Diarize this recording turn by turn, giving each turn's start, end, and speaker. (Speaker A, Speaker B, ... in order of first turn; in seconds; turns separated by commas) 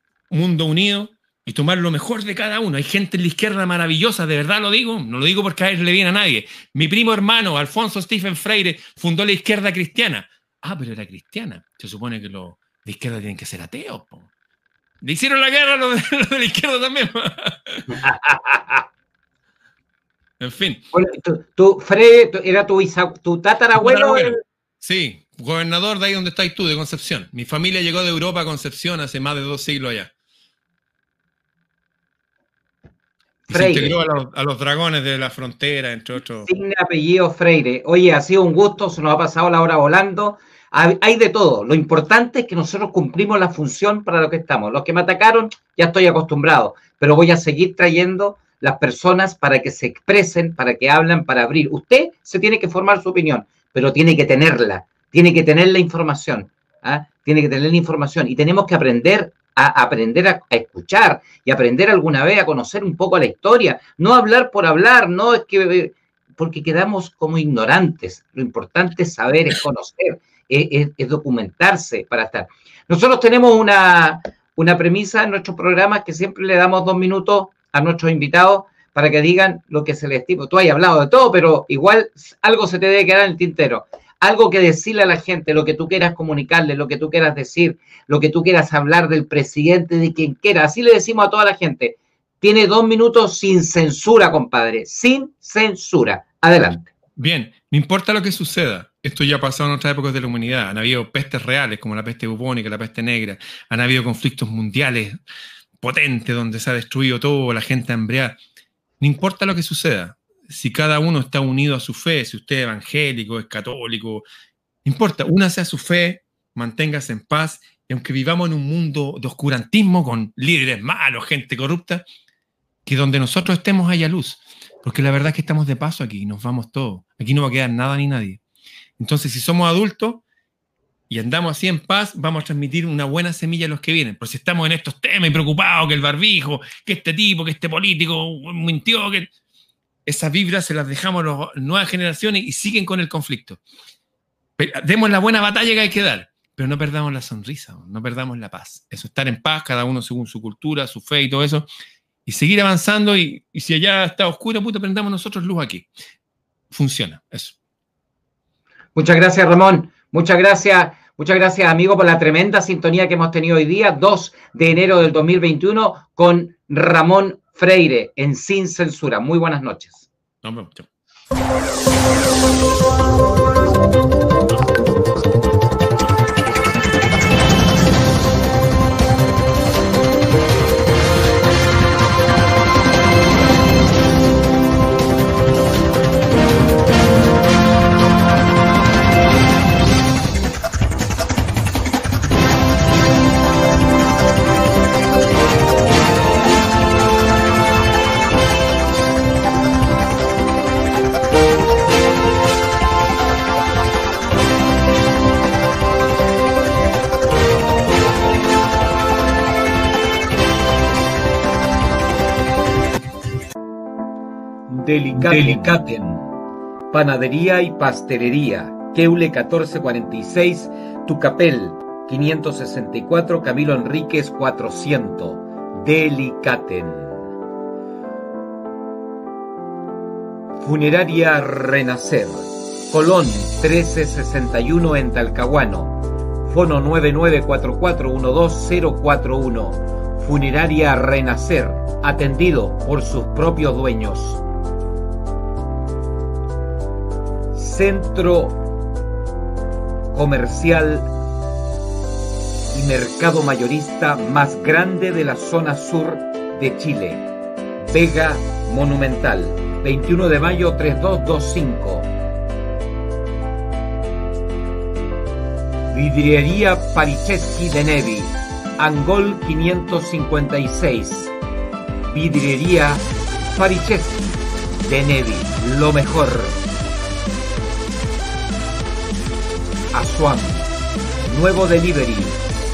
Speaker A: 0.3-14.3, Speaker A: 15.0-17.9, Speaker B: 17.9-18.8, Speaker A: 20.4-20.8, Speaker B: 20.9-24.4, Speaker A: 23.7-30.1, Speaker B: 33.5-34.0, Speaker A: 33.5-36.5, Speaker B: 36.5-96.9, Speaker A: 97.2-105.1, Speaker A: 105.8-108.4, Speaker A: 109.0-114.2, Speaker A: 114.8-122.0, Speaker A: 122.8-128.4, Speaker A: 129.0-130.2, Speaker A: 131.1-139.3, Speaker A: 140.1-143.6, Speaker A: 144.6-151.7, Speaker A: 152.2-155.9, Speaker A: 156.7-157.6, Speaker B: 158.9-170.1, Speaker A: 170.4-170.9, Speaker B: 214.7-216.2, Speaker B: 216.9-227.1, Speaker B: 230.6-235.9, Speaker B: 236.4-244.4, Speaker B: 247.5-248.5, Speaker B: 250.1-251.0, Speaker B: 252.7-257.2, Speaker B: 257.8-262.0, Speaker B: 265.9-271.3, Speaker B: 272.1-273.0, Speaker B: 273.6-274.2, Speaker B: 274.9-276.5, Speaker B: 279.9-280.6, Speaker B: 281.2-282.4